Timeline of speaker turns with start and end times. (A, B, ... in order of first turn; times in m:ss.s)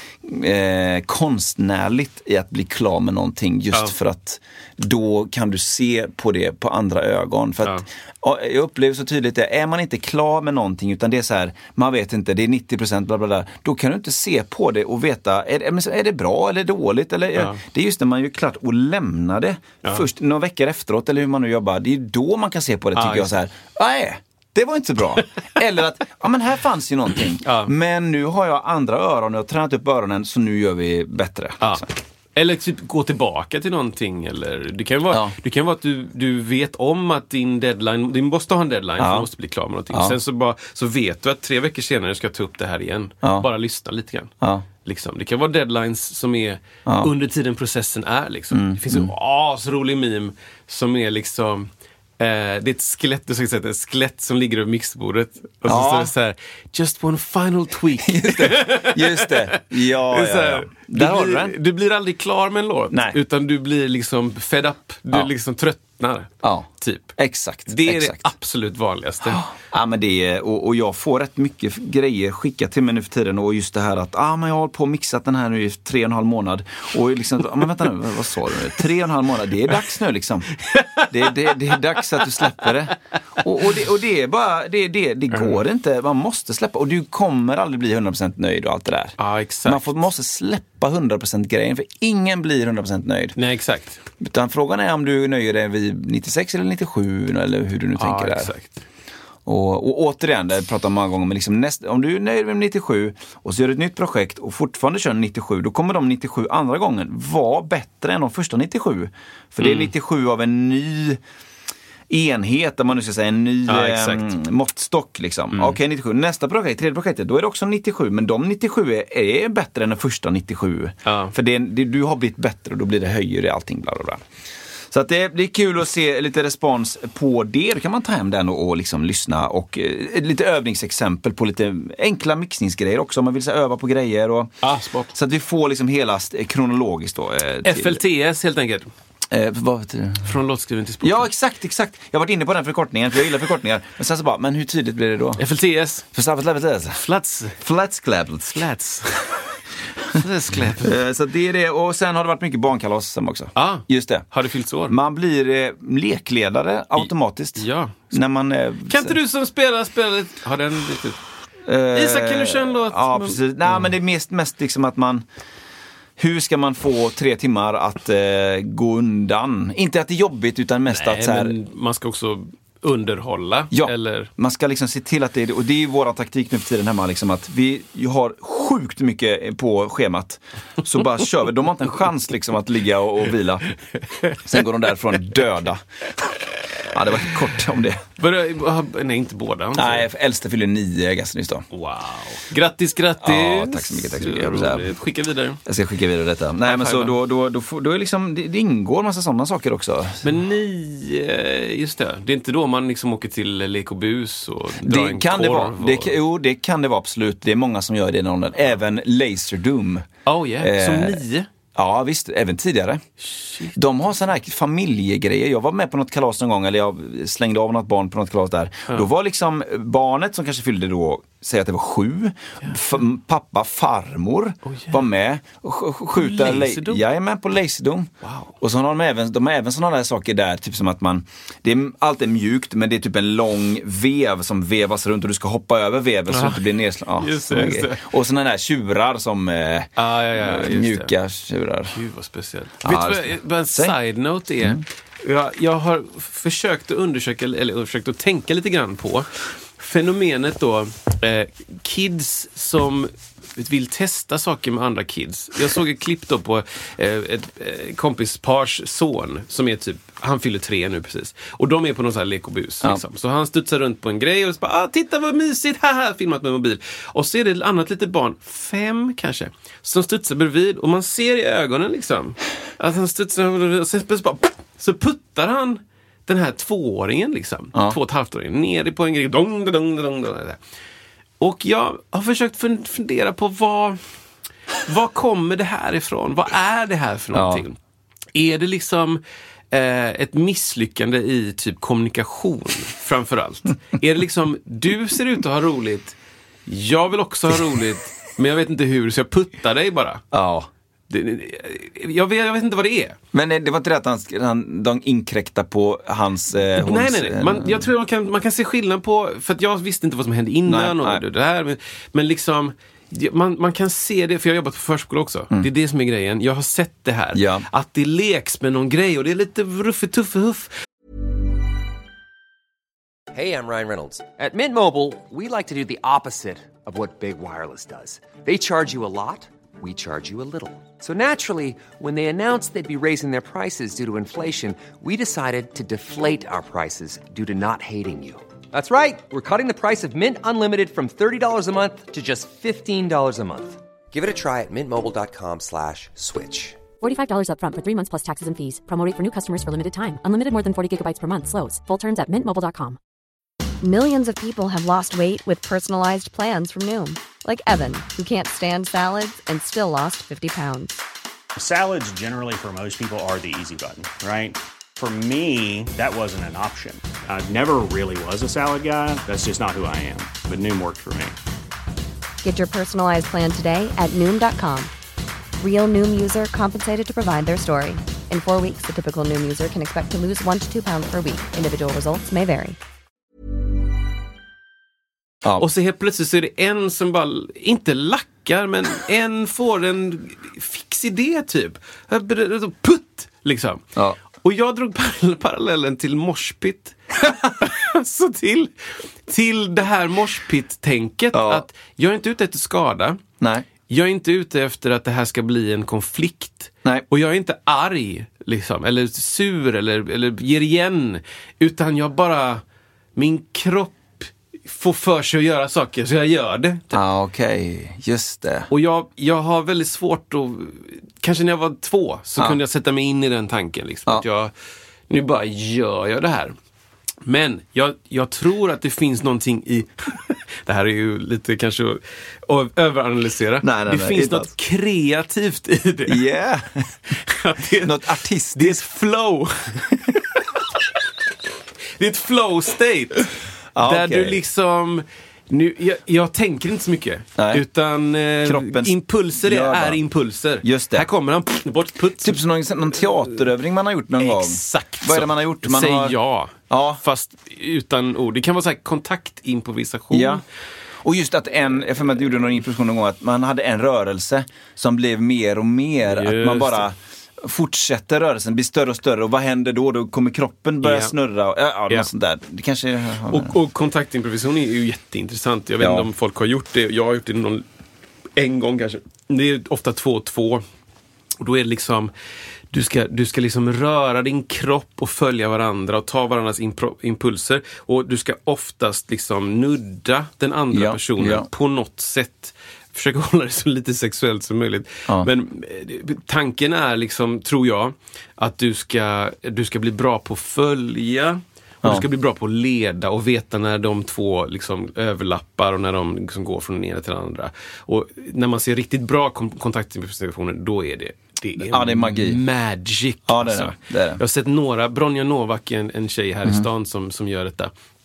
0:00.2-0:31.9 A
0:23.0-0:23.3 B
0:27.4-0:27.7 B
0:31.6-0:44.3 B
0:39.0-0:39.3 A
0:39.9-0:40.2 A
0:43.2-0:43.5 A
0:44.8-1:07.1 B
0:48.5-0:49.1 A
0:55.6-0:56.1 A
0:58.0-1:01.6 A
1:02.9-1:03.2 A
1:06.4-1:08.2 A
1:07.7-1:09.5 B
1:09.3-1:20.6 A
1:20.7-1:22.5 B
1:21.1-1:33.4 A
1:25.3-1:25.6 B
1:29.2-1:29.8 B
1:33.4-1:34.0 B
1:34.2-1:38.5 A
1:38.0-1:38.8 B
1:39.5-1:51.2 A
1:49.6-1:49.9 B
1:52.1-2:04.2 A
1:53.7-1:54.3 B
1:55.5-1:55.8 B
2:01.1-2:01.3 B
2:04.9-2:14.5 A
2:14.6-2:15.1 B
2:15.1-2:18.0 A
2:17.6-2:18.9 B
2:19.3-2:20.3 A
2:20.2-2:21.3 B
2:21.0-2:25.4 A
2:25.4-2:26.1 B
2:26.1-2:27.0 A
2:27.0-2:27.6 B
2:27.6-2:28.6 A
2:28.5-2:29.3 B
2:30.1-2:31.0 B
2:30.8-2:34.2 A
2:33.6-2:35.0 B
2:34.9-2:39.2 A
2:37.0-2:38.1 B
2:38.9-2:41.2 B
2:41.7-2:45.2 A
2:41.9-2:43.9 B
2:46.2-2:51.5 A
2:50.9-2:54.3 B
2:53.7-3:03.7 A
3:04.4-3:05.8 A
3:06.8-3:08.0 A
3:08.2-3:10.1 B
3:09.8-3:11.7 A
3:11.7-3:15.6 B
3:13.2-3:14.9 A
3:15.7-3:20.3 A
3:16.6-3:17.1 B
3:20.2-3:26.2 B
3:24.8-3:30.1 A
3:30.3-3:31.5 B
3:30.6-3:31.2 A
3:31.8-3:33.0 A
3:33.3-3:33.7 B
3:33.7-4:02.0 A
3:44.7-3:45.0 B
3:46.2-3:47.0 B
3:48.2-3:48.5 B
3:56.3-3:56.6 B
3:57.2-3:58.1 B
4:00.0-4:01.1 B
4:01.9-4:40.6 B
4:02.8-4:04.0 A
4:41.4-4:44.0 B
4:44.8-4:47.8 B
4:47.3-4:47.6 A
4:48.4-4:49.2 B
4:49.7-4:56.2 B
4:56.7-5:00.2 B
5:00.3-5:00.7 A
5:01.1-5:03.2 B
5:03.3-5:07.9 A
5:06.8-5:20.8 B
5:10.6-5:11.2 A
5:17.3-5:17.7 A
5:23.3-5:46.9 C
5:47.0-5:53.0 D
5:53.8-6:01.0 E
6:01.6-6:11.4 F
6:12.4-6:14.9 E
6:15.6-6:22.8 E
6:25.6-6:33.8 B
6:34.4-6:43.2 B
6:41.3-6:41.6 A
6:43.4-6:43.7 A
6:43.9-6:52.6 B
6:53.2-6:57.0 B
6:56.9-6:58.7 A
6:58.7-7:04.5 B
7:05.1-7:06.6 B
7:07.2-7:16.2 B
7:13.6-7:14.5 A
7:16.1-7:16.9 A
7:17.1-7:20.1 B
7:17.8-7:18.8 A
7:22.0-7:32.4 B
7:23.8-7:24.4 A
7:27.4-7:27.6 A
7:28.4-7:30.0 A
7:30.6-7:31.1 A
7:32.2-7:36.2 A
7:34.2-7:40.4 B
7:36.7-7:37.0 A
7:40.1-7:40.4 A
7:41.0-7:53.5 A
7:46.1-7:46.9 B
7:50.8-7:51.1 B
7:53.3-7:57.6 B
7:55.8-7:56.1 A
7:58.4-8:00.6 B
8:01.4-8:02.1 B
8:02.7-8:37.7 B
8:10.7-8:11.5 A
8:31.6-8:32.4 A
8:33.3-8:34.2 A